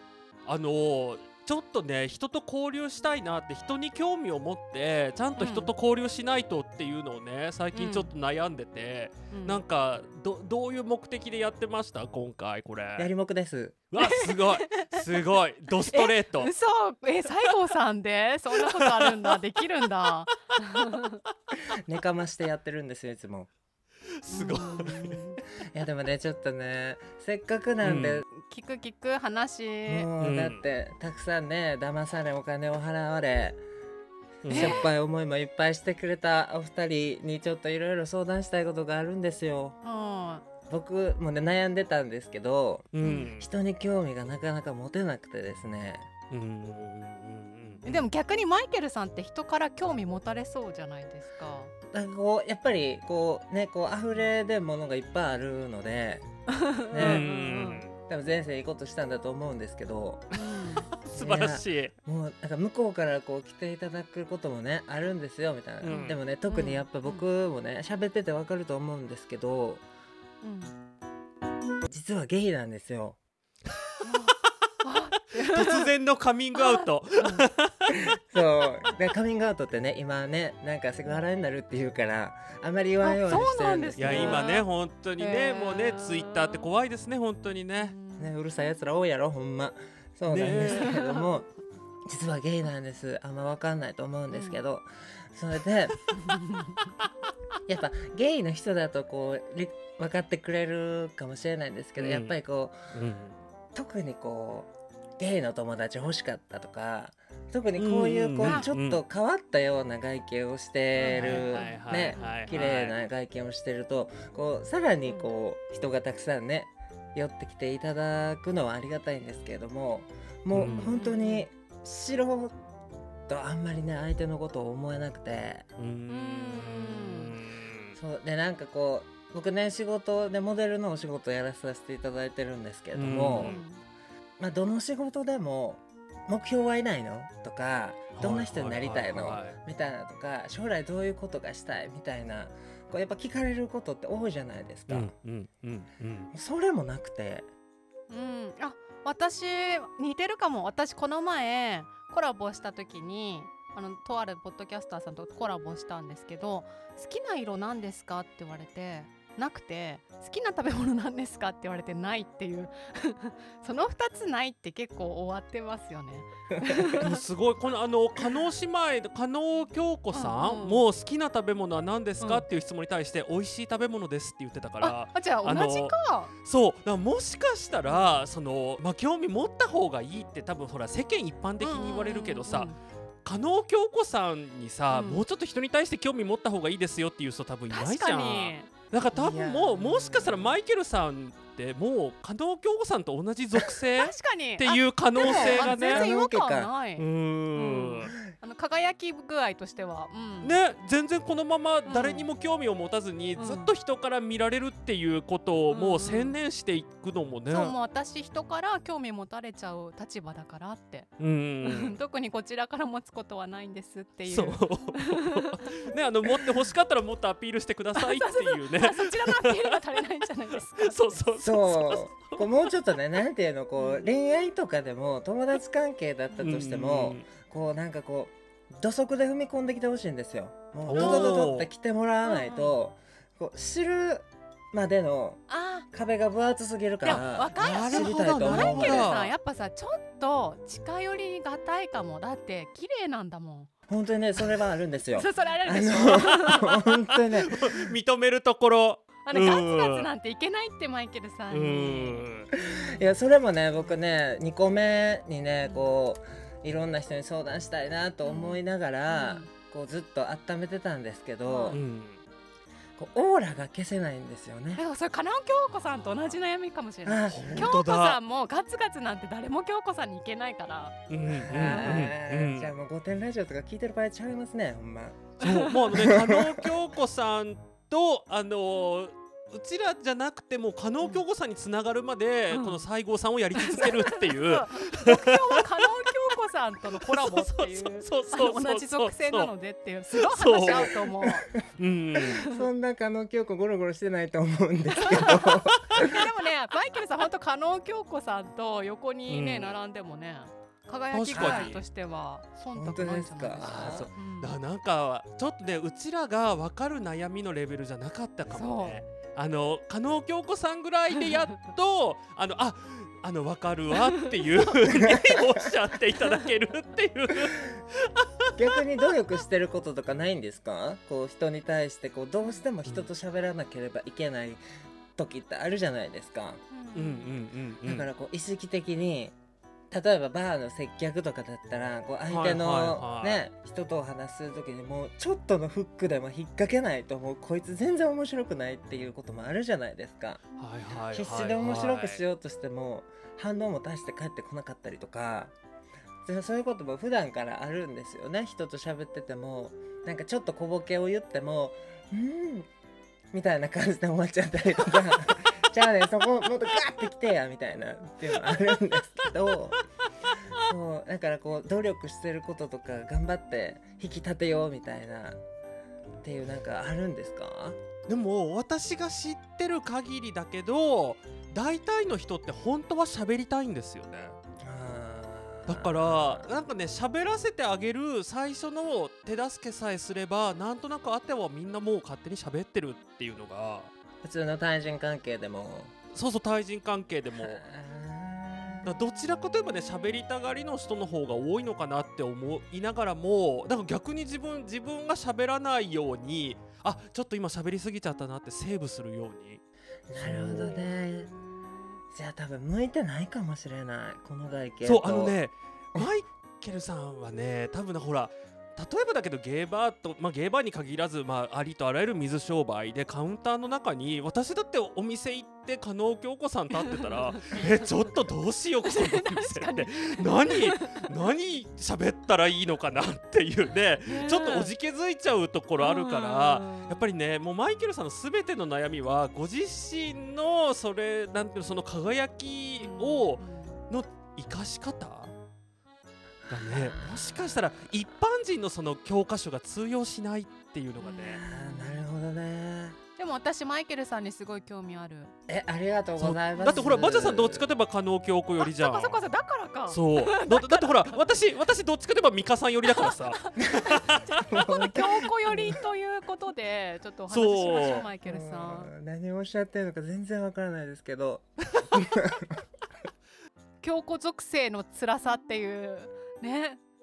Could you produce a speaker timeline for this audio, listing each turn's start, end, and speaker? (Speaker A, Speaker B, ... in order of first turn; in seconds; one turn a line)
Speaker A: 0.5-13.1
Speaker B: 5.4-5.7
Speaker B: 7.7-8.1
Speaker B: 9.3-9.6
Speaker C: 13.0-13.8
Speaker A: 13.9-16.5
Speaker B: 14.0-15.0
Speaker B: 15.9-21.2
Speaker A: 18.6-19.4
Speaker C: 21.7-23.5
Speaker A: 24.2-25.2
Speaker B: 24.3-25.4
Speaker C: 25.7-28.2
Speaker A: 27.8-28.2
Speaker B: 28.3-30.1
Speaker C: 29.9-33.6
Speaker A: 30.2-30.6
Speaker A: 34.4-34.9
Speaker B: 34.5-34.8
Speaker C: 34.5-39.8
Speaker B: 39.8-40.5
Speaker C: 40.7-46.1
Speaker A: 42.9-43.5
Speaker B: 43.0-43.3
Speaker A: 46.3-48.0
Speaker B: 47.9-51.7
Speaker C: 51.9-56.3
Speaker B: 56.5-57.8
Speaker C: 56.9-57.3
Speaker A: 57.0-57.9
Speaker C: 58.1-60.3
Speaker B: 60.3-60.9
Speaker A: 61.0-61.9
Speaker C: 61.1-69.8
Speaker A: 65.8-66.2
Speaker B: 65.9-67.2
Speaker B: 70.4-70.7
Speaker C: 71.8-73.2
Speaker B: 74.0-75.9
Speaker A: 75.4-78.0
Speaker B: 76.6-77.5
Speaker C: 77.9-84.5
Speaker B: 83.0-84.7
Speaker A: 84.0-88.0
Speaker B: 85.2-86.7
Speaker B: 87.8-88.3
Speaker C: 88.1-91.5
Speaker A: 90.3-91.0
Speaker B: 90.6-91.3
Speaker C: 92.1-96.0
Speaker B: 94.3-94.6
Speaker B: 96.2-96.8
Speaker C: 97.7-102.8
Speaker A: 102.0-102.3
Speaker A: 102.9-103.4
Speaker C: 103.7-122.5
Speaker A: 107.8-109.0
Speaker B: 108.4-108.7
Speaker B: 111.0-112.5
Speaker A: 111.1-113.0
Speaker B: 115.0-115.3
Speaker A: 120.5-121.0
Speaker B: 120.7-121.5
Speaker C: 123.3-125.7
Speaker A: 125.8-128.0
Speaker B: 126.1-127.3
Speaker C: 128.0-133.6
Speaker A: 132.9-133.6
Speaker B: 133.4-133.8
Speaker C: 134.4-145.1
Speaker A: 138.1-139.6
Speaker A: 144.9-146.3
Speaker C: 146.3-147.5
Speaker B: 148.1-167.1
Speaker A: 167.0-196.1
Speaker B: 170.1-170.8
Speaker B: 172.2-172.4
Speaker B: 174.8-176.3
Speaker B: 181.6-182.8
Speaker B: 184.9-185.2
Speaker B: 187.7-188.7
Speaker C: 189.1-190.6
Speaker B: 194.0-200.6
Speaker C: 195.2-196.7
Speaker A: 197.0-198.1
Speaker A: 200.4-207.8
Speaker B: 201.9-202.3
Speaker B: 203.4-203.7
Speaker B: 205.7-206.4
Speaker B: 207.5-211.1
Speaker A: 211.2-212.0
Speaker B: 211.6-215.5
Speaker A: 214.3-219.8
Speaker B: 218.0-221.3
Speaker A: 220.7-222.5
Speaker C: 221.4-239.1
Speaker B: 223.8-224.1
Speaker A: 226.4-227.2
Speaker A: 230.9-231.7
Speaker B: 230.9-231.5
Speaker B: 232.2-232.8
Speaker B: 235.5-235.9
Speaker B: 237.0-243.7
Speaker A: 237.1-239.3
Speaker C: 243.9-247.8
Speaker B: 245.2-246.8
Speaker A: 247.2-250.1
Speaker B: 249.2-253.0
Speaker A: 251.5-252.5
Speaker C: 252.6-261.8
Speaker B: 255.6-255.9
Speaker B: 258.2-259.5
Speaker B: 261.4-261.8
Speaker A: 261.7-262.2
Speaker C: 263.0-264.8
Speaker B: 264.8-271.0
Speaker C: 267.1-267.7
Speaker A: 267.3-268.2
Speaker A: 271.1-272.7
Speaker C: 271.4-275.4
Speaker B: 271.6-272.1
Speaker A: 275.4-285.6
Speaker B: 275.4-275.8
Speaker C: 275.9-276.7
Speaker B: 282.5-282.8
Speaker B: 283.6-291.5
Speaker A: 287.1-289.5
Speaker A: 290.1-291.0
Speaker C: 290.8-291.6
Speaker A: 291.8-292.4
Speaker B: 292.2-292.7
Speaker C: 292.4-296.1
Speaker B: 294.9-304.6
Speaker A: 299.3-299.7
Speaker A: 301.1-301.8
Speaker C: 301.3-301.8
Speaker C: 302.8-304.1
Speaker A: 303.6-318.6
Speaker B: 308.5-309.0
Speaker C: 315.0-315.2
Speaker C: 318.6-324.6
Speaker C: 325.2-326.6
Speaker B: 326.7-327.4
Speaker A: 326.9-328.1
Speaker C: 327.9-329.4
Speaker C: 329.9-340.4
Speaker A: 332.3-333.4
Speaker A: 340.6-342.2
Speaker C: 341.1-345.5
Speaker C: 346.2-352.7
Speaker C: 353.3-359.8
Speaker C: 360.6-365.4
Speaker C: 366.2-367.8
Speaker A: 368.1-374.4
Speaker C: 374.6-376.5
Speaker A: 375.7-383.9
Speaker C: 384.2-385.9
Speaker A: 386.1-387.6
Speaker C: 387.4-388.9
Speaker A: 388.8-399.6
Speaker C: 400.1-401.3
Speaker A: 400.2-400.8
Speaker B: 400.8-401.8
Speaker C: 402.1-405.4
Speaker A: 404.8-435.3
Speaker B: 416.8-417.9
Speaker B: 418.9-421.1
Speaker B: 424.1-424.7
Speaker B: 425.8-427.1
Speaker B: 432.8-433.8
Speaker C: 436.5-437.7
Speaker A: 436.5-441.4
Speaker B: 441.0-442.0
Speaker C: 441.3-443.0
Speaker B: 443.2-445.3
Speaker C: 445.5-447.7
Speaker A: 446.2-449.2
Speaker B: 448.6-451.5
Speaker A: 449.9-454.4
Speaker B: 452.9-458.9
Speaker C: 454.4-455.7
Speaker A: 457.3-458.1
Speaker C: 457.7-462.5
Speaker B: 463.8-466.8